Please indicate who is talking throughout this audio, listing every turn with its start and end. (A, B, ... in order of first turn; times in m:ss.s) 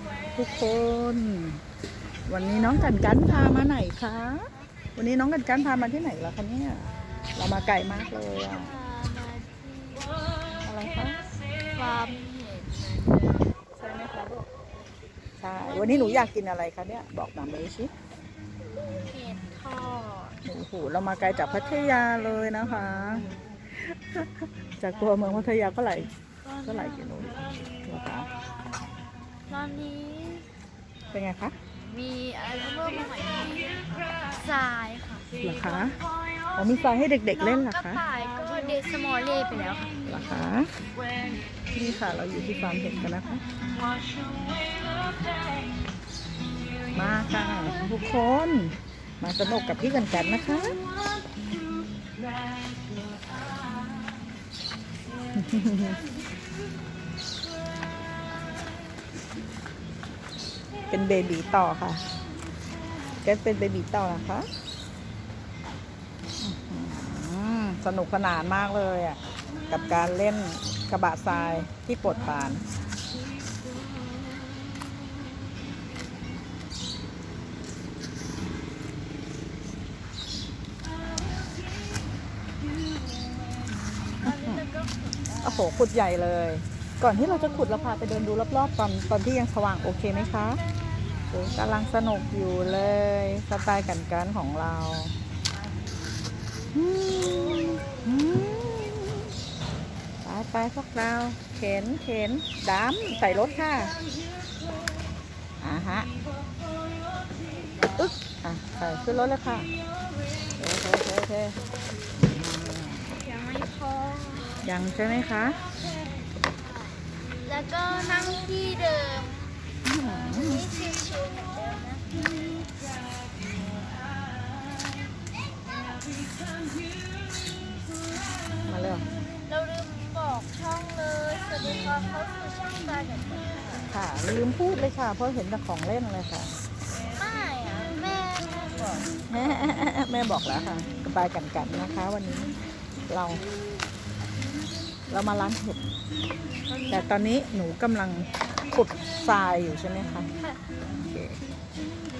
0:00.3-0:01.6 A
0:02.3-0:08.7 A
0:08.5-0:10.2 B
0:10.6-0:11.2 A
0:11.7-0:13.9 B
0:13.8-0:14.4 A
0:15.4-0:17.9 A
0:15.6-0:16.3 B
0:18.9-0:20.4 B
0:20.4-0:26.1 A
0:26.6-0:28.3 A
0:29.5-0:30.5 B
0:31.1-0:31.6 A
0:31.8-0:35.4 B
0:35.4-0:36.0 A
0:36.6-0:38.0 A
0:37.3-0:40.1 B
0:40.0-0:40.8 A
0:41.7-0:43.4 A
0:46.9-0:50.8 A
0:55.3-0:56.0 A
1:00.9-1:02.0 A
1:03.2-1:04.5 A
1:06.4-1:12.6 A
1:24.2-1:25.9 B
1:24.2-1:24.6 A
1:25.4-1:30.6 A
1:31.3-1:35.1 A
1:36.7-1:39.3 A
1:40.2-1:44.0 A
1:45.6-1:46.1 A
1:47.9-1:49.7 A
1:50.6-1:51.6 A
1:52.2-1:53.2 A
1:53.1-1:54.6 B
1:54.6-1:55.6 A
1:57.4-2:02.6 B
1:59.8-2:00.6 A
2:08.6-2:09.1 A
2:09.4-2:13.9 B
2:11.6-2:12.1 A
2:13.9-2:16.5 A
2:17.0-2:19.3 B
2:19.3-2:22.5 A
2:23.1-2:23.4 A
2:25.1-2:25.8 A
2:26.6-2:27.1 B
2:26.9-2:30.3 A
2:30.9-2:31.4 A